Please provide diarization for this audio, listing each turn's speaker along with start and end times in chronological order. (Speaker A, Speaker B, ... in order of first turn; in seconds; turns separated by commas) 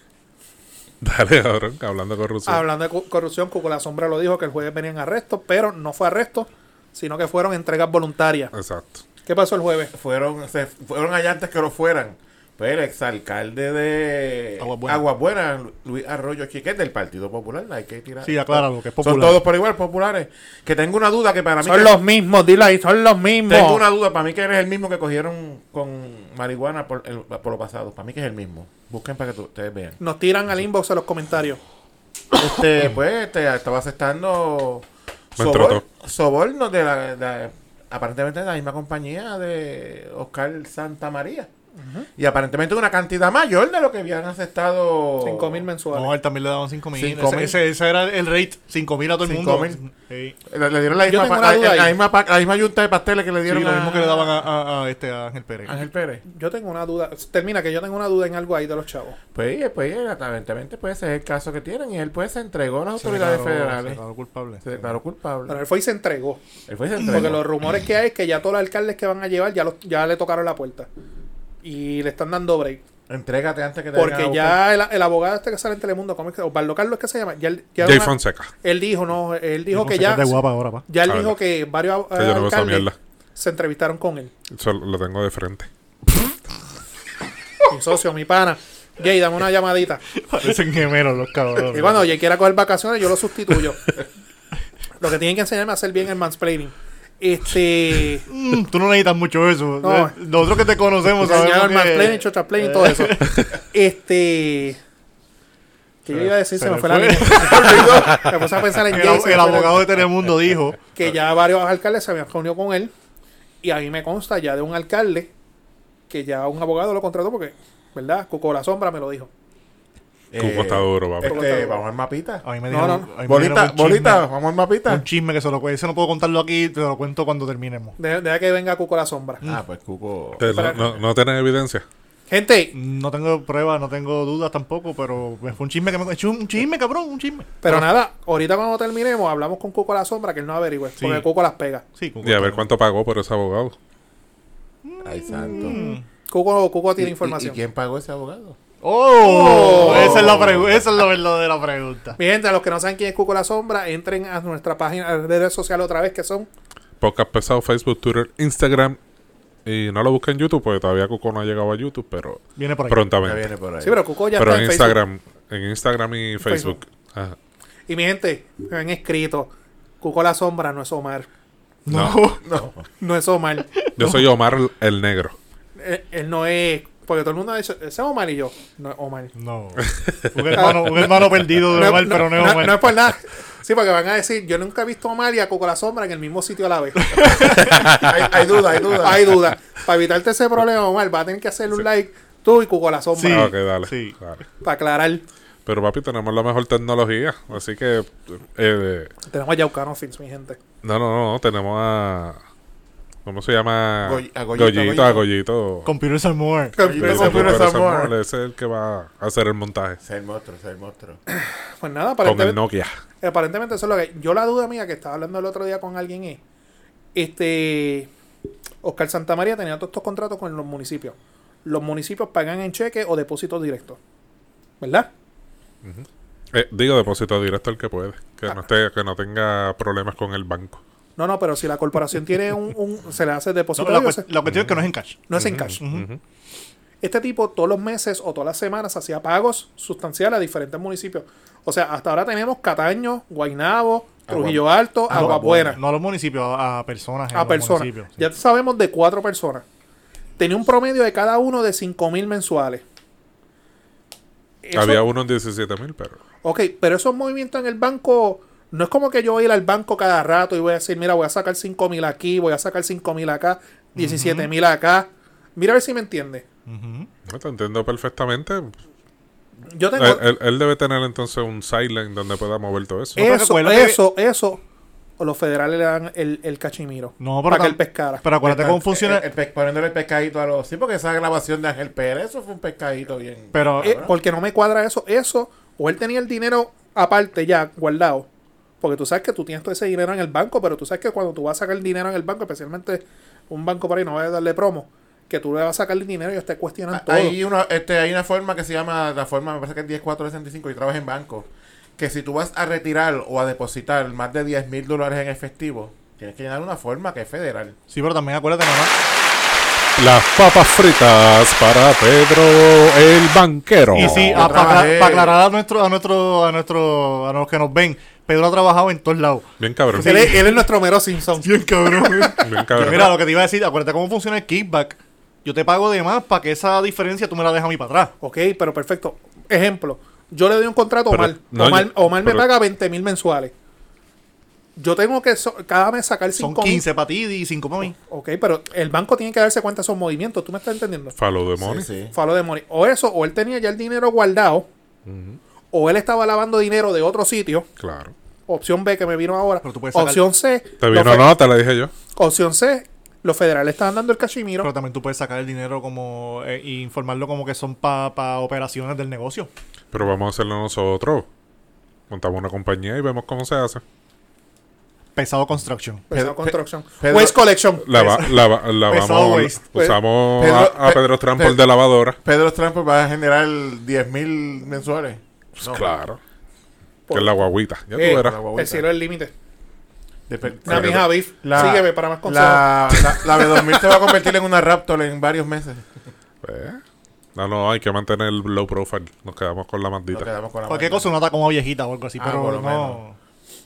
Speaker A: 1.0-2.6, Speaker B: 2.5-8.5, Speaker A: 8.5-9.0, Speaker B: 9.2-9.9, Speaker C: 9.9-22.0, Speaker D: 14.6-15.0, Speaker D: 18.2-19.4, Speaker B: 21.6-23.8, Speaker C: 23.5-30.0, Speaker B: 30.0-31.6, Speaker C: 32.3-41.5, Speaker A: 35.4-35.8, Speaker B: 41.8-42.1, Speaker C: 42.1-45.6, Speaker B: 45.2-46.1, Speaker D: 45.9-50.4, Speaker C: 46.9-47.6, Speaker C: 49.2-49.8, Speaker C: 50.5-54.5, Speaker B: 51.0-52.0, Speaker D: 53.5-55.8, Speaker C: 55.6-56.2, Speaker B: 56.2-59.1, Speaker C: 59.3-64.0, Speaker D: 63.0-64.8, Speaker C: 64.6-65.6, Speaker B: 65.5-66.4, Speaker C: 66.7-67.4, Speaker B: 67.0-70.9, Speaker B: 71.6-72.8, Speaker C: 73.1-74.6, Speaker B: 73.9-80.3, Speaker A: 77.8-78.5, Speaker D: 79.7-80.8, Speaker B: 80.9-84.3, Speaker A: 81.1-81.3, Speaker A: 82.1-82.9, Speaker A: 84.5-85.7, Speaker B: 87.7-90.0, Speaker D: 90.1-92.0, Speaker B: 91.7-93.8, Speaker B: 95.0-98.3, Speaker D: 98.3-103.3, Speaker B: 99.8-100.2, Speaker B: 101.2-104.8, Speaker B: 106.0-109.9, Speaker D: 106.1-108.1, Speaker C: 107.3-108.2, Speaker D: 108.7-110.8, Speaker B: 110.9-112.9, Speaker B: 113.6-115.3, Speaker B: 116.1-119.3, Speaker C: 120.3-122.4, Speaker A: 120.4-121.5, Speaker B: 121.2-121.8, Speaker D: 122.4-124.3, Speaker B: 122.7-123.1, Speaker C: 123.2-125.0, Speaker D: 124.9-128.0, Speaker B: 128.0-129.4, Speaker C: 129.4-131.0, Speaker A: 130.4-131.8, Speaker B: 130.5-130.8, Speaker B: 132.3-132.7, Speaker D: 132.7-137.9, Speaker B: 137.6-141.8, Speaker D: 141.0-141.2, Speaker D: 142.0-142.6, Speaker A: 142.2-143.8, Speaker D: 144.8-146.0, Speaker C: 145.0-145.8, Speaker B: 145.3-147.6, Speaker C: 147.0-148.6, Speaker D: 148.8-152.2, Speaker B: 149.2-150.3, Speaker C: 149.2-150.6, Speaker A: 150.0-150.8, Speaker B: 152.2-156.5, Speaker A: 157.0-159.0, Speaker A: 159.7-163.5, Speaker D: 162.6-163.0, Speaker C: 163.2-164.0, Speaker B: 163.8-165.0, Speaker A: 164.3-167.3, Speaker B: 166.4-166.8, Speaker B: 167.9-169.5, Speaker B: 170.0-171.3, Speaker D: 171.8-172.4, Speaker A: 171.9-172.3, Speaker C: 172.4-172.8, Speaker B: 173.0-173.7, Speaker D: 173.8-174.3, Speaker A: 173.9-175.4, Speaker B: 175.8-179.3, Speaker D: 179.3-182.9, Speaker A: 179.9-180.6, Speaker B: 180.5-181.1, Speaker B: 181.7-187.5, Speaker D: 187.1-187.7, Speaker A: 187.7-188.1, Speaker C: 187.9-189.4, Speaker B: 188.9-193.5, Speaker D: 193.2-194.2, Speaker A: 193.3-194.4, Speaker B: 194.6-195.2, Speaker A: 195.7-199.1, Speaker B: 199.3-200.6, Speaker A: 200.8-202.4, Speaker A: 203.2-205.9, Speaker C: 204.0-205.2, Speaker D: 205.8-207.4, Speaker B: 206.8-207.6, Speaker C: 206.8-208.1, Speaker A: 206.8-210.0, Speaker C: 210.0-211.2, Speaker B: 211.3-212.6, Speaker A: 212.2-213.0, Speaker B: 213.2-216.4, Speaker B: 217.1-218.1, Speaker B: 218.8-224.0, Speaker B: 224.8-225.1, Speaker A: 225.8-230.8, Speaker B: 231.2-234.3, Speaker D: 233.8-236.1, Speaker A: 234.4-236.2, Speaker B: 235.3-235.8, Speaker B: 237.0-245.8, Speaker C: 244.2-245.8, Speaker D: 245.1-248.3, Speaker B: 247.3-249.6, Speaker B: 250.4-252.8, Speaker B: 254.6-255.0, Speaker A: 254.7-256.2, Speaker B: 256.4-266.4, Speaker D: 263.9-264.5, Speaker D: 266.7-267.1, Speaker A: 267.3-268.8, Speaker B: 269.7-270.2, Speaker A: 269.9-273.2, Speaker D: 273.1-274.0, Speaker B: 273.2-274.6, Speaker B: 275.2-278.2, Speaker D: 277.2-279.2, Speaker C: 278.4-284.1, Speaker D: 283.5-284.0, Speaker B: 283.8-288.3, Speaker B: 288.8-297.4, Speaker C: 296.9-307.8, Speaker D: 307.9-308.9, Speaker A: 310.0-314.5, Speaker D: 313.9-320.7, Speaker C: 313.9-315.4, Speaker A: 319.6-320.3, Speaker B: 320.0-323.0, Speaker D: 321.4-328.1, Speaker A: 322.4-323.2, Speaker B: 328.2-333.5, Speaker A: 331.1-332.5, Speaker B: 334.8-336.9, Speaker D: 336.4-337.9, Speaker B: 337.9-341.1, Speaker A: 341.1-341.9, Speaker C: 341.6-342.1, Speaker B: 342.1-344.7, Speaker A: 345.1-345.4, Speaker B: 345.7-347.7, Speaker A: 347.8-348.1, Speaker B: 348.5-351.3, Speaker D: 349.6-350.2, Speaker A: 350.8-351.9, Speaker B: 352.1-354.7, Speaker D: 354.6-359.5, Speaker A: 359.9-361.3, Speaker A: 362.1-363.8, Speaker D: 365.1-366.0, Speaker B: 366.1-368.2, Speaker C: 366.1-367.4, Speaker A: 367.9-372.2, Speaker D: 367.9-369.6, Speaker C: 370.4-371.6, Speaker C: 372.2-375.9, Speaker A: 375.6-376.2, Speaker B: 377.1-379.3, Speaker A: 377.1-378.4, Speaker C: 378.0-378.9, Speaker C: 380.3-385.9, Speaker B: 380.6-383.4, Speaker A: 380.7-381.1, Speaker A: 386.4-386.8, Speaker A: 387.3-390.3, Speaker C: 390.1-391.1, Speaker D: 390.7-393.1, Speaker C: 392.2-393.0